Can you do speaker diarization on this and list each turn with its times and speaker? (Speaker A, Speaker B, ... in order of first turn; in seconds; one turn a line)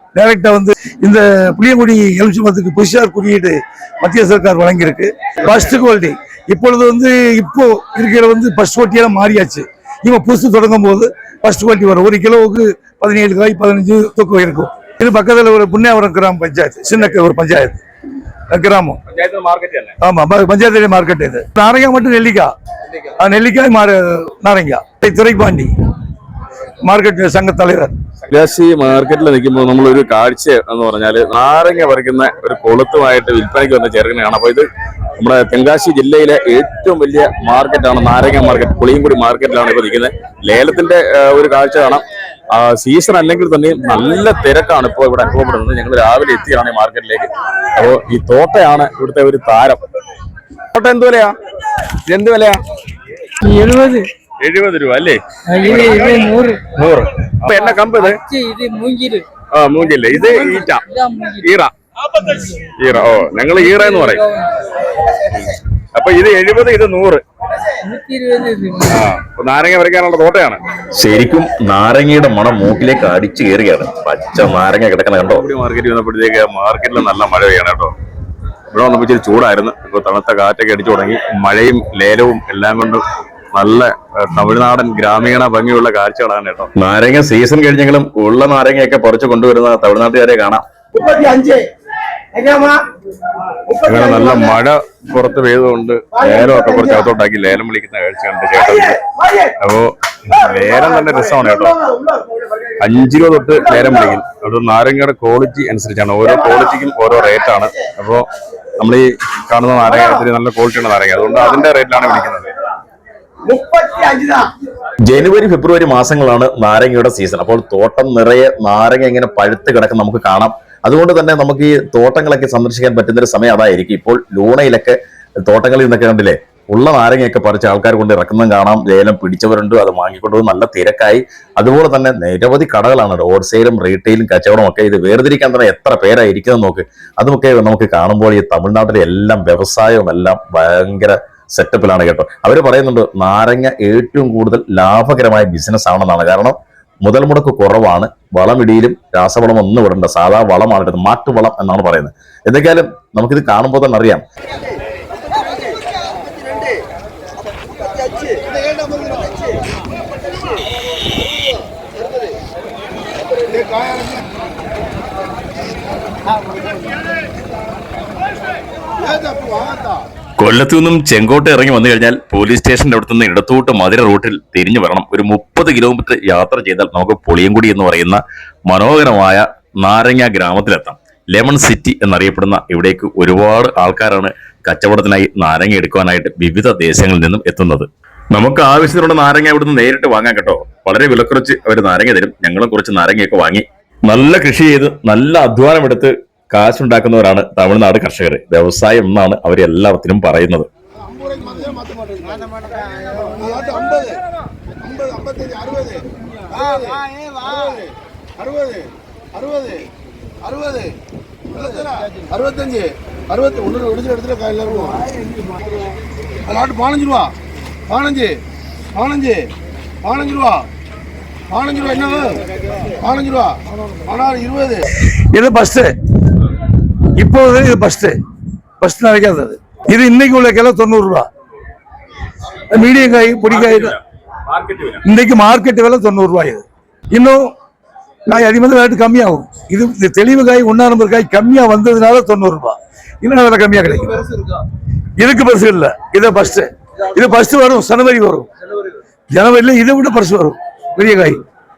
Speaker A: 0.1-17.8
Speaker A: 18.5-19.0
Speaker B: 19.1-19.9
Speaker A: 20.0-22.5
Speaker A: 23.2-25.7
Speaker A: 26.8-27.9
Speaker B: 28.2-49.8
Speaker B: 50.7-51.4
Speaker B: 52.0-52.6
Speaker C: 53.4-54.1
Speaker B: 54.4-58.2
Speaker C: 55.5-56.7
Speaker C: 57.7-59.3
Speaker B: 59.5-60.9
Speaker C: 60.1-61.5
Speaker B: 61.4-62.2
Speaker C: 62.2-62.7
Speaker B: 62.8-64.2
Speaker C: 63.5-64.5
Speaker B: 65.3-67.2
Speaker C: 67.8-69.0
Speaker B: 68.9-70.6
Speaker D: 71.0-75.5
Speaker B: 75.3-77.9
Speaker B: 78.7-86.7
Speaker D: 86.8-90.6
Speaker B: 93.7-99.0
Speaker B: 99.6-101.8
Speaker B: 102.8-108.3
Speaker B: 108.8-112.5
Speaker D: 115.0-154.2
Speaker E: 158.4-159.4
Speaker E: 163.4-164.2
Speaker E: 169.0-170.0
Speaker D: 170.4-200.7
Speaker E: 201.0-204.2
Speaker E: 204.8-207.9
Speaker E: 208.4-209.9
Speaker E: 210.4-210.9
Speaker E: 211.5-215.0
Speaker E: 216.4-217.3
Speaker E: 217.9-218.4
Speaker E: 218.9-219.5
Speaker E: 220.0-220.7
Speaker E: 221.5-222.4
Speaker E: 223.0-224.9
Speaker A: 225.3-225.9
Speaker A: 227.2-228.1
Speaker A: 228.8-231.3
Speaker A: 232.7-234.0
Speaker B: 233.5-235.0
Speaker A: 235.0-237.5
Speaker A: 238.2-244.2
Speaker A: 245.2-248.5
Speaker A: 249.3-251.4